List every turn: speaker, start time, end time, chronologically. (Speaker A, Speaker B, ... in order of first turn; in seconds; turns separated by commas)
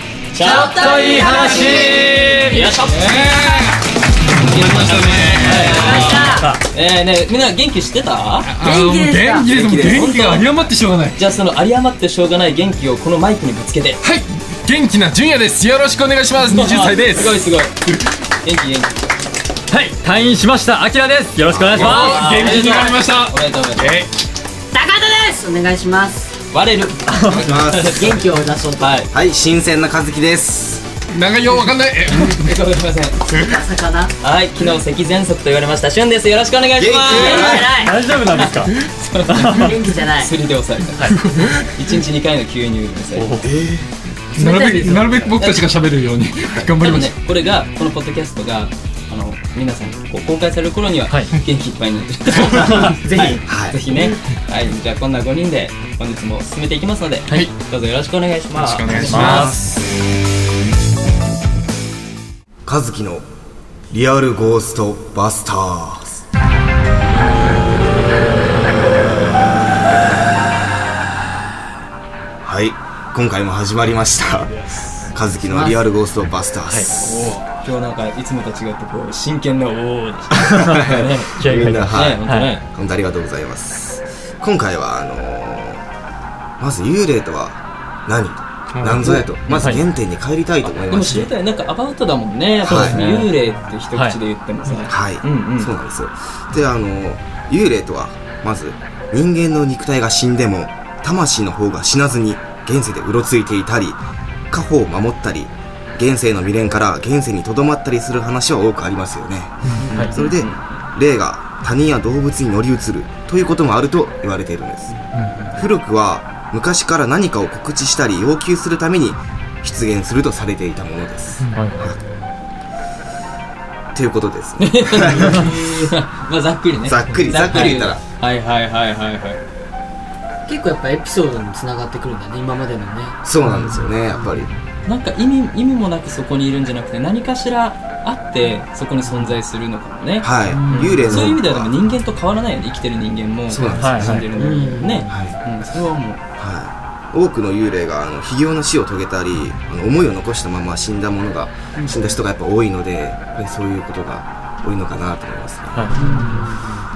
Speaker A: 0.3-3.4, Speaker B: 0.4-2.7, Speaker C: 0.4-3.6, Speaker D: 2.9-6.2, Speaker A: 4.3-8.5, Speaker C: 5.5-6.5, Speaker B: 6.3-6.6, Speaker D: 8.4-11.2, Speaker C: 8.6-10.1, Speaker A: 9.7-10.5, Speaker A: 11.1-14.0, Speaker D: 14.0-17.4, Speaker A: 16.5-17.7, Speaker A: 18.4-19.1, Speaker B: 19.7-22.5, Speaker E: 21.5-22.0, Speaker A: 21.8-23.9, Speaker D: 21.8-24.1, Speaker C: 24.7-26.3, Speaker A: 26.5-28.2, Speaker B: 27.1-27.4, Speaker E: 27.4-28.0, Speaker C: 27.9-29.0, Speaker A: 28.8-29.1, Speaker E: 29.1-30.9, Speaker D: 31.1-32.5, Speaker A: 32.1-33.2, Speaker C: 33.4-34.1, Speaker A: 34.2-37.8, Speaker E: 36.8-37.8, Speaker C: 37.0-38.0, Speaker B: 37.7-38.7, Speaker A: 38.3-41.1, Speaker B: 39.2-39.8, Speaker C: 39.5-40.3, Speaker D: 41.0-41.7, Speaker A: 41.7-43.4, Speaker B: 43.1-43.5, Speaker E: 43.4-43.9, Speaker C: 44.3-45.3, Speaker D: 44.3-47.1, Speaker A: 45.4-45.6, Speaker A: 46.8-59.5, Speaker B: 52.7-52.9, Speaker C: 52.7-53.4, Speaker E: 53.5-53.8, Speaker D: 58.5-59.8, Speaker B: 59.0-59.7, Speaker E: 62.6-63.2, Speaker E: 63.9-66.2, Speaker E: 72.4-77.2, Speaker C: 75.5-75.8, Speaker B: 76.7-77.0, Speaker D: 77.0-77.6, Speaker A: 77.1-81.4, Speaker E: 80.4-85.8, Speaker B: 81.3-82.5, Speaker A: 81.9-82.6, Speaker E: 86.6-91.3, Speaker D: 88.7-89.3, Speaker B: 89.5-89.8, Speaker A: 90.6-95.7, Speaker E: 92.6-93.0, Speaker B: 92.7-93.3, Speaker B: 93.9-94.2, Speaker E: 94.9-104.0, Speaker E: 104.5-115.0, Speaker C: 109.8-110.1, Speaker A: 109.8-110.8, Speaker D: 115.1-115.4, Speaker E: 115.5-122.0, Speaker B: 121.5-121.9, Speaker E: 123.9-125.4, Speaker A: 124.6-129.4, Speaker C: 125.2-125.9, Speaker E: 126.8-128.0, Speaker D: 127.1-127.3, Speaker C: 130.4-133.2, Speaker E: 133.2-134.5, Speaker A: 134.8-146.2, Speaker E: 140.2-141.7, Speaker C: 140.5-141.3, Speaker E: 143.5-144.2, Speaker B: 143.8-144.2, Speaker C: 144.3-145.2, Speaker E: 145.1-145.4, Speaker E: 146.4-155.9, Speaker B: 155.7-156.3, Speaker A: 155.9-156.4, Speaker C: 155.9-156.8